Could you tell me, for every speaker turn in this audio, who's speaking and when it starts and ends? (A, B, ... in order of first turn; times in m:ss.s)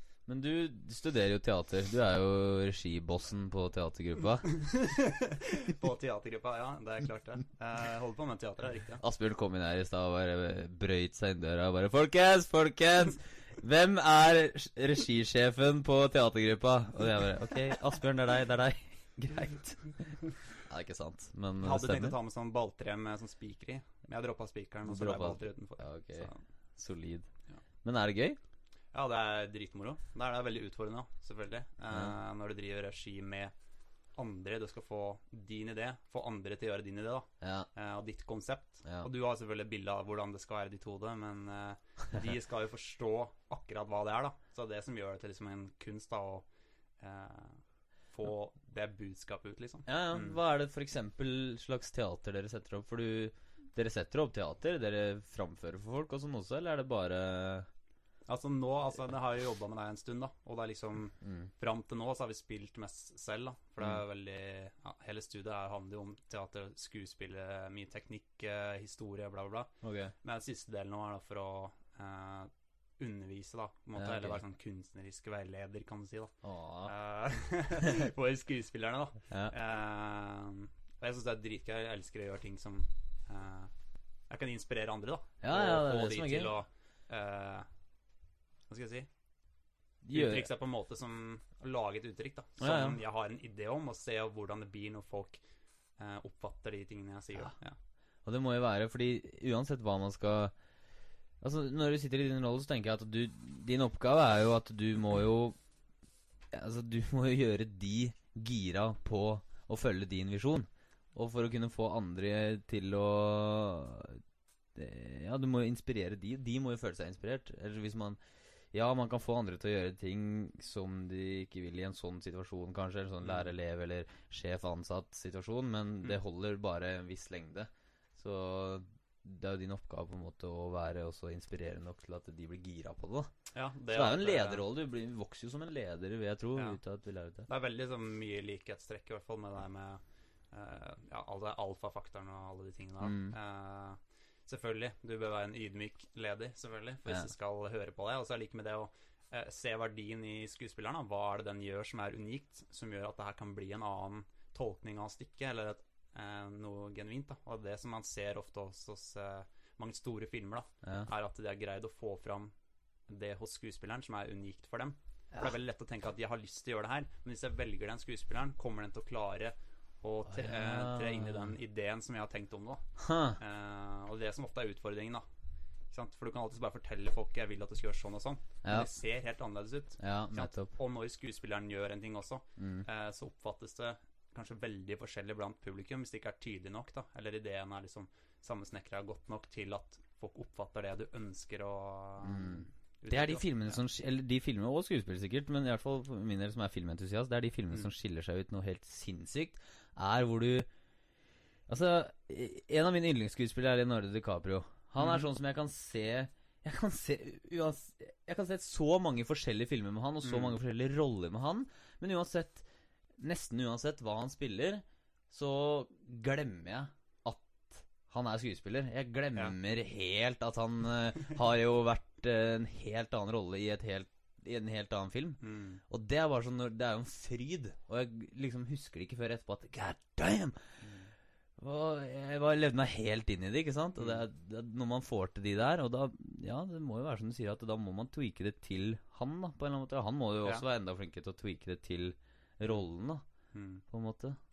0:00.3-0:04.7 A
0:04.7-0:09.0 B
0:09.0-0:22.2 A
0:21.6-0:26.4 B
0:24.8-0:27.3 A
0:27.8-0:28.4 A
0:28.9-0:33.5 B
0:31.9-0:32.1 A
0:34.1-0:46.4 B
0:37.4-0:37.7 A
0:47.0-0:50.4 B
0:49.9-0:57.7 A
0:58.3-1:23.7 B
1:01.2-1:01.5 A
1:09.8-1:10.1 A
1:14.0-1:14.4 A
1:16.4-1:16.9 A
1:24.3-1:27.7 B
1:25.4-1:26.5 A
1:28.7-1:29.1 B
1:30.0-1:30.4 A
1:30.1-1:35.4 B
1:32.6-1:33.0 A
1:36.0-1:37.8 B
1:38.2-1:40.5 A
1:41.4-1:45.6 A
1:46.5-1:54.2 A
1:54.7-1:58.2 A
1:58.7-2:13.3 A
2:03.2-2:03.5 B
2:13.5-2:14.6 B
2:13.9-2:17.5 A
2:17.4-2:20.0 B
2:20.5-2:42.5 B
2:23.0-2:23.3 A
2:40.8-2:41.1 A
2:43.1-2:55.2 B
2:50.3-2:51.5 A
2:53.0-2:53.4 A
2:55.9-3:13.8 B
2:58.6-2:58.9 A
3:00.0-3:00.7 A
3:02.6-3:02.8 A
3:12.2-3:20.7 A
3:21.7-3:32.6 A
3:25.0-3:25.2 B
3:30.2-3:30.6 B
3:33.2-3:50.6 A
3:45.4-3:45.8 B
3:50.8-3:51.1 B
3:51.6-4:03.2 A
3:54.0-3:54.2 B
4:03.5-4:03.8 B
4:03.8-4:04.4 A